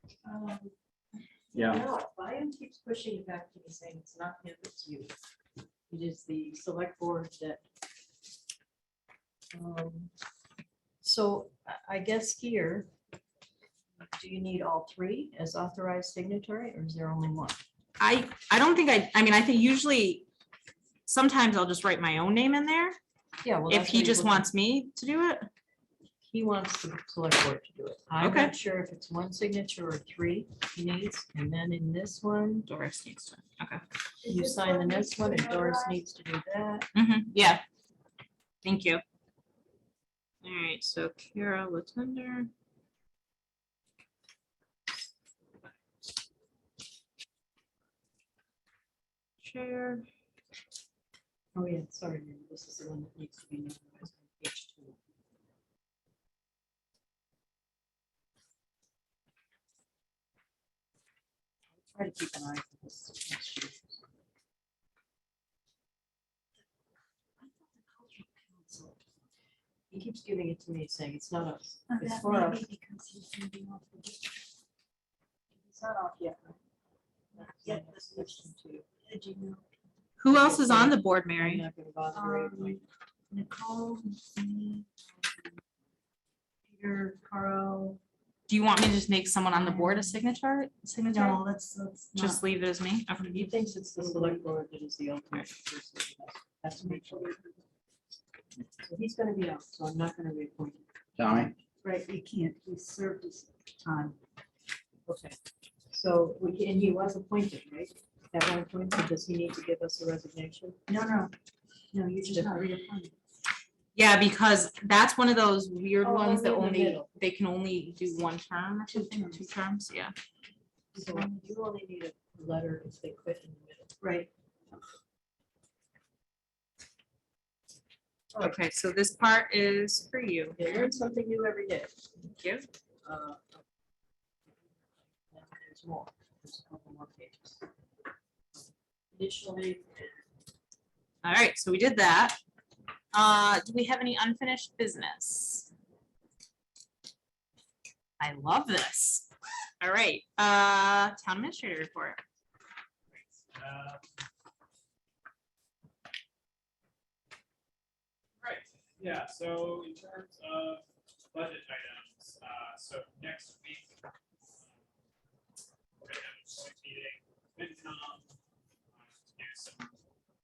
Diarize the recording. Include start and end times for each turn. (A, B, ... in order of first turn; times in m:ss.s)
0:00.2-0:00.7 A
0:01.5-0:05.1 A
0:05.9-0:07.6 A
0:09.5-0:10.1 A
0:11.0-0:12.9 A
0:14.0-0:17.6 A
0:18.0-0:20.2 B
0:21.0-0:23.0 B
0:23.4-0:24.5 A
0:23.7-0:25.5 B
0:26.2-0:32.7 A
0:28.2-0:28.5 B
0:32.6-0:33.8 B
0:34.2-0:36.0 C
0:34.2-0:36.9 A
0:36.9-0:37.6 B
0:38.6-0:39.0 B
0:40.4-0:42.5 B
0:49.4-0:50.0 B
0:51.5-0:55.0 A
1:01.8-1:04.0 A
1:07.4-1:09.0 C
1:09.9-1:12.7 A
1:11.9-1:14.4 C
1:15.7-1:16.6 A
1:17.3-1:19.6 C
1:17.4-1:18.8 A
1:20.2-1:21.6 B
1:20.3-1:22.8 A
1:22.1-1:25.6 C
1:26.7-1:28.0 C
1:28.5-1:31.4 B
1:29.5-1:30.2 C
1:31.1-1:32.4 C
1:32.2-1:33.3 B
1:33.2-1:34.5 C
1:33.2-1:37.3 A
1:36.8-1:37.5 C
1:38.8-1:41.4 A
1:41.3-1:44.2 C
1:45.0-1:45.4 A
1:45.9-1:50.8 A
1:50.9-1:51.3 C
1:51.9-1:53.1 C
1:52.2-1:52.6 A
1:53.9-2:00.1 B
1:56.0-1:57.1 A
1:58.9-1:59.5 C
2:00.9-2:04.0 A
2:00.9-2:01.5 C
2:04.0-2:04.3 C
2:08.4-2:10.6 B
2:10.5-2:11.9 A
2:12.3-2:12.6 B
2:13.0-2:13.6 A
2:15.3-2:17.6 A
2:19.1-2:20.2 A
2:21.2-2:22.4 B
2:23.1-2:25.7 B
2:28.2-2:29.3 B
2:29.8-2:32.2 B
2:33.1-2:34.1 D
2:38.4-2:43.9 D
2:44.6-2:44.8 D
2:46.0-2:48.4 D
2:48.9-2:50.0 D